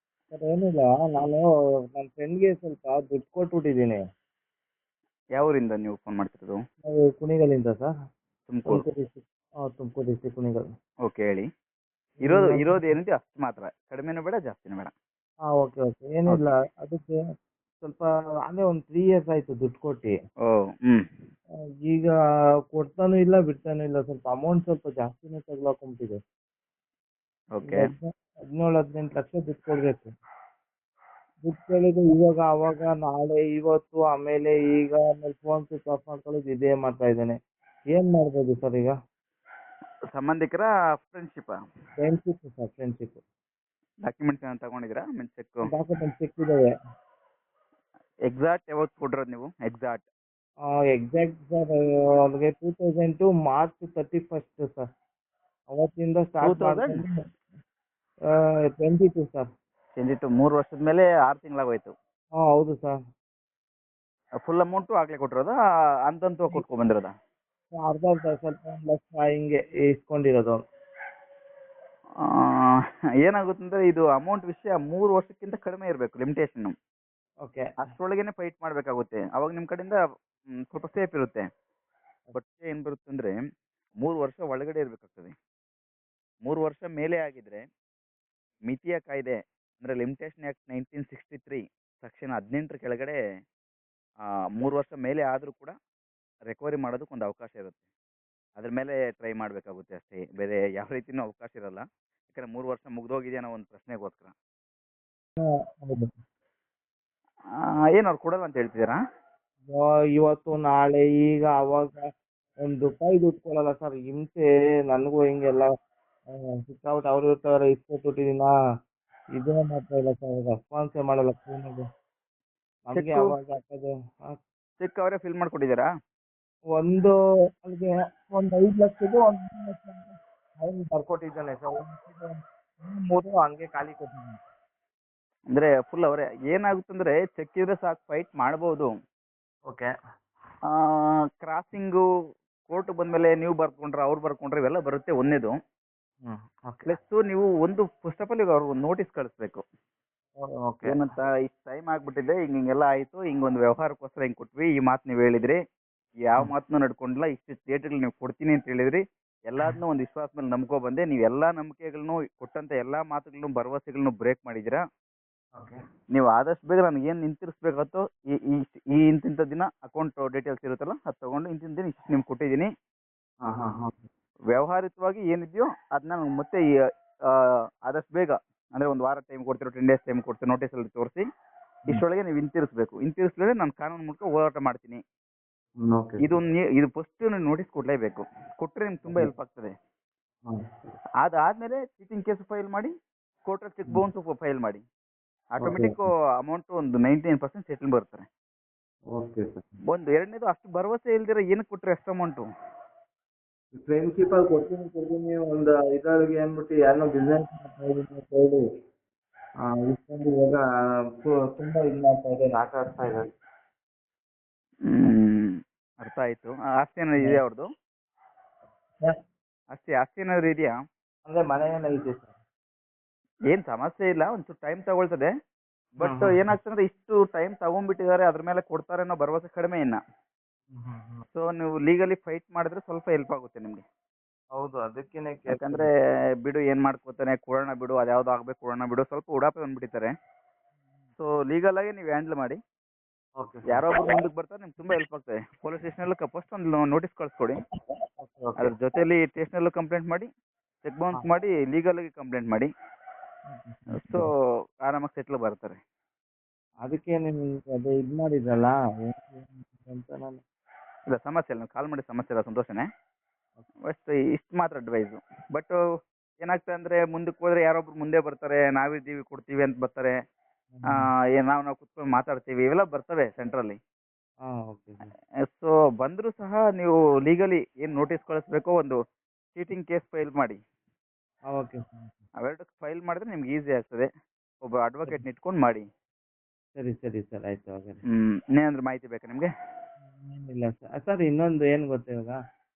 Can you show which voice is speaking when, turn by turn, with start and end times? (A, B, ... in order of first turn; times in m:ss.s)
0:00.3-0:04.0 A
0:05.3-0:06.6 B
0:06.8-0:07.9 A
0:08.5-0:08.8 B
0:08.6-0:10.7 A
0:11.0-0:11.5 B
0:12.2-0:12.9 A
0:12.2-0:14.9 B
0:15.5-0:17.2 A
0:17.8-0:20.1 A
0:20.4-0:21.0 B
0:21.8-0:22.1 A
0:22.7-0:26.2 A
0:27.5-0:27.8 B
0:27.6-0:30.1 A
0:31.4-0:37.4 A
0:37.9-0:38.9 A
0:40.1-0:41.5 B
0:42.0-0:43.2 A
0:44.0-0:45.7 B
0:45.6-0:46.7 A
0:48.3-0:50.0 B
0:50.9-0:54.9 A
0:55.7-0:57.2 A
0:56.4-0:57.0 B
0:58.7-0:59.5 A
1:00.0-1:01.9 B
1:02.4-1:03.0 A
1:04.4-1:05.5 B
1:06.1-1:07.1 B
1:07.7-1:10.6 A
1:12.2-1:16.7 B
1:17.8-1:20.0 B
1:20.7-1:21.4 B
1:22.3-1:23.4 B
1:24.0-1:25.3 B
1:26.4-1:27.6 B
1:28.7-1:33.2 B
1:34.6-1:35.7 B
1:36.5-1:37.8 B
1:38.6-1:44.3 B
1:45.4-1:46.1 A
1:48.0-1:49.0 B
1:49.6-1:52.1 A
1:52.6-1:55.7 A
1:56.3-1:58.5 A
1:59.4-2:01.8 A
2:02.9-2:04.4 A
2:02.9-2:03.3 B
2:04.8-2:05.9 B
2:06.7-2:14.4 A
2:15.5-2:18.9 B
2:20.7-2:22.0 B
2:22.7-2:25.6 B
2:26.2-2:27.0 A
2:26.9-2:29.6 B
2:30.4-2:31.0 A
2:30.8-2:35.6 B
2:36.2-2:44.8 B
2:46.1-2:52.7 B
2:53.4-2:54.0 A
2:54.5-2:56.6 B
2:57.3-3:01.2 B
3:01.9-3:05.0 B
3:05.8-3:06.4 A
3:06.2-3:09.7 B
3:09.1-3:09.3 A
3:10.5-3:10.9 A
3:11.2-3:12.9 B
3:13.4-3:14.8 B
3:15.6-3:16.0 A
3:15.6-3:18.3 B
3:19.1-3:19.6 A
3:19.9-3:22.5 B
3:23.7-3:28.6 A
3:29.6-3:30.6 A
3:31.2-3:33.3 A
3:34.9-3:37.7 B
3:39.7-3:40.7 B
3:41.2-3:42.4 A
3:43.5-3:45.3 B
3:46.0-3:50.0 B
3:46.0-3:46.5 A
3:50.7-3:51.2 A
3:51.3-3:53.8 B
3:54.5-3:55.9 A
3:55.5-3:55.9 B
3:56.4-4:00.1 B
4:01.2-4:02.6 B
4:03.4-4:03.8 A
4:03.7-4:07.6 B
4:08.2-4:08.7 A
4:08.6-4:10.3 B
4:10.8-4:12.7 B
4:13.5-4:14.3 A
4:14.0-4:14.3 B
4:14.8-4:15.8 B
4:16.8-4:20.4 A
4:21.1-4:22.9 B
4:23.9-4:25.8 B
4:26.4-4:30.1 B
4:30.7-4:31.1 A
4:31.4-4:33.8 B
4:34.5-4:35.1 A
4:35.5-4:39.0 B
4:39.5-4:40.6 B
4:41.5-4:42.2 A
4:42.4-4:44.1 B
4:44.6-4:45.8 B
4:46.7-4:48.0 A
4:48.1-4:49.5 B
4:50.0-4:52.4 A